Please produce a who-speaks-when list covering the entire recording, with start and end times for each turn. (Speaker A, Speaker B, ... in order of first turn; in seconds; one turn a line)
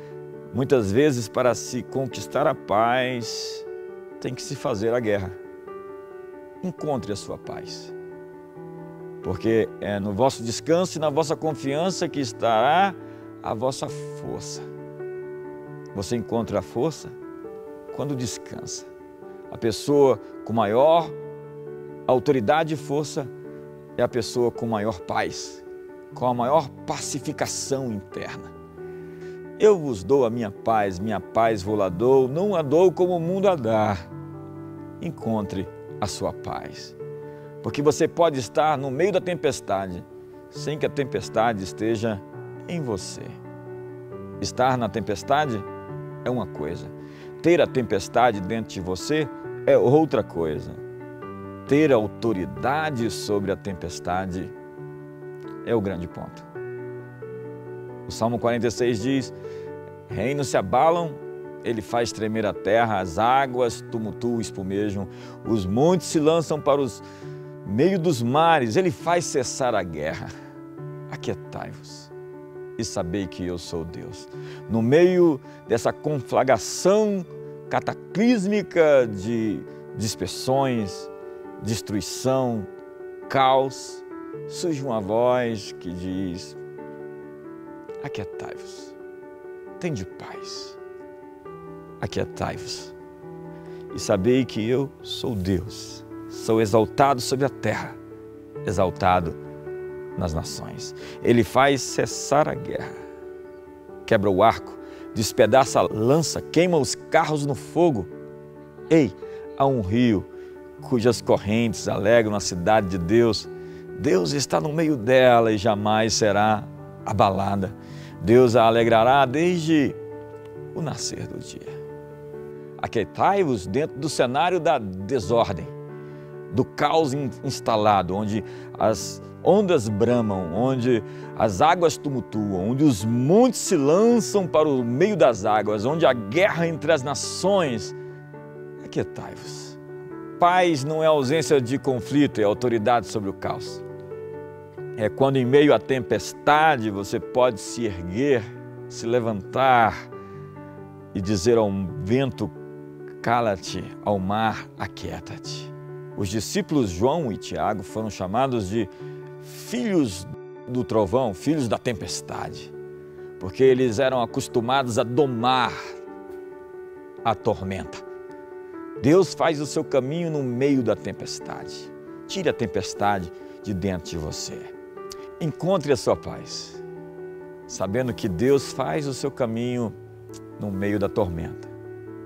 Speaker A: 0.5-3.6
Speaker A: 4.2-5.3
Speaker A: 6.6-7.9
Speaker A: 9.2-14.7
Speaker A: 15.9-17.1
Speaker A: 17.9-18.9
Speaker A: 19.5-21.1
Speaker A: 22.1-23.3
Speaker A: 23.9-28.5
Speaker A: 29.6-34.0
Speaker A: 35.0-37.0
Speaker A: 37.6-43.4
Speaker A: 44.4-45.6
Speaker A: 46.2-50.8
Speaker A: 51.6-54.5
Speaker A: 55.6-56.5
Speaker A: 58.0-59.3
Speaker A: 60.1-67.0
Speaker A: 67.6-70.3
Speaker A: 71.1-72.1
Speaker A: 72.8-82.7
Speaker A: 83.3-86.6
Speaker A: 88.0-89.0
Speaker A: 89.8-90.8
Speaker A: 92.0-92.9
Speaker A: 93.9-98.0
Speaker A: 98.6-99.4
Speaker A: 100.2-102.9
Speaker A: 104.0-108.1
Speaker A: 108.9-110.3
Speaker A: 110.8-120.0
Speaker A: 120.7-121.7
Speaker A: 122.8-125.7
Speaker A: 126.5-137.9
Speaker A: 138.8-139.8
Speaker A: 140.4-143.8
Speaker A: 144.9-150.1
Speaker A: 151.1-152.5
Speaker A: 153.2-158.9
Speaker A: 159.4-162.7
Speaker A: 163.4-165.8
Speaker A: 167.2-168.0
Speaker A: 169.0-174.7
Speaker A: 175.4-176.8
Speaker A: 177.7-179.9
Speaker A: 180.6-181.7